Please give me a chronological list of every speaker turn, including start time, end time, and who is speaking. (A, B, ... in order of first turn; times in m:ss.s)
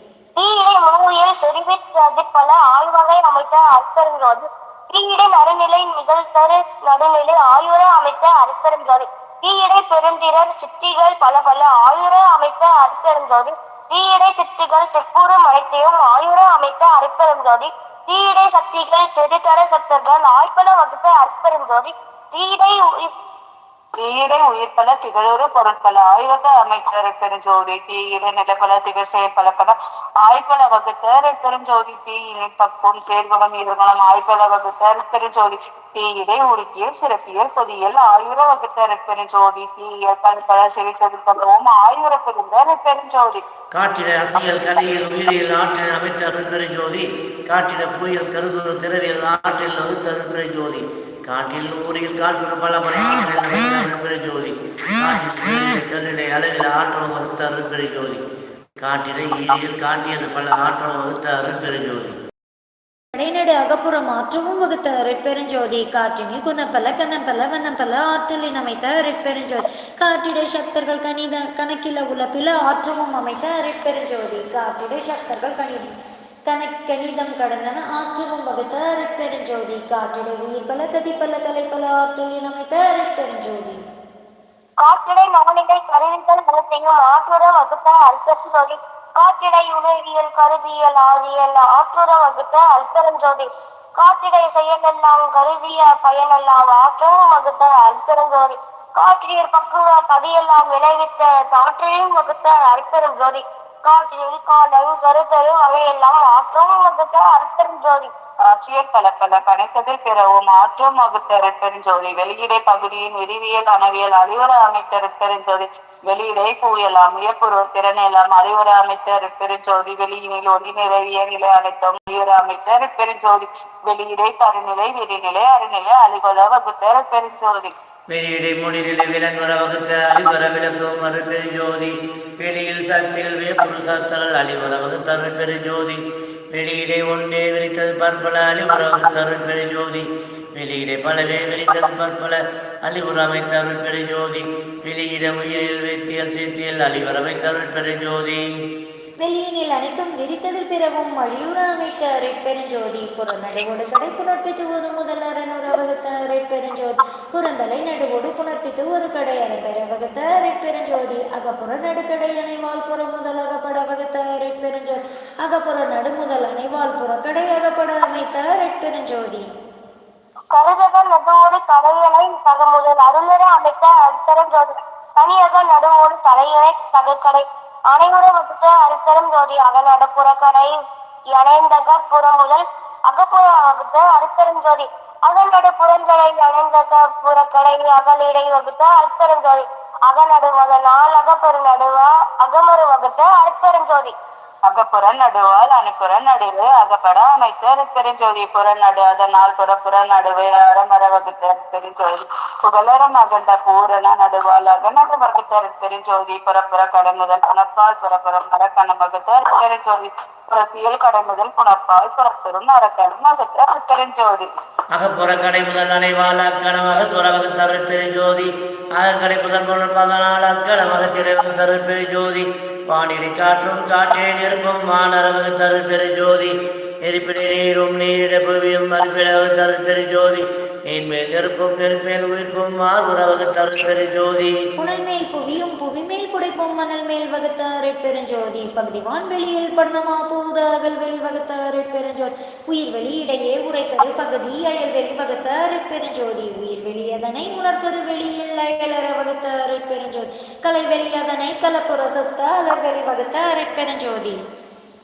0:00.4-0:23.1 A
0:24.0-0:43.4 B
0:43.7-0:58.2 C
0:58.8-1:02.2 C
1:03.2-1:15.9 D
1:16.5-1:23.8 D
1:24.8-1:48.1 A
1:48.5-2:07.7 B
2:08.1-2:28.4 C
2:29.2-2:49.5 D
2:50.5-3:00.7 A
3:01.3-3:14.2 A
3:14.7-3:34.5 B
3:34.9-3:54.6 C
3:54.8-4:14.4 D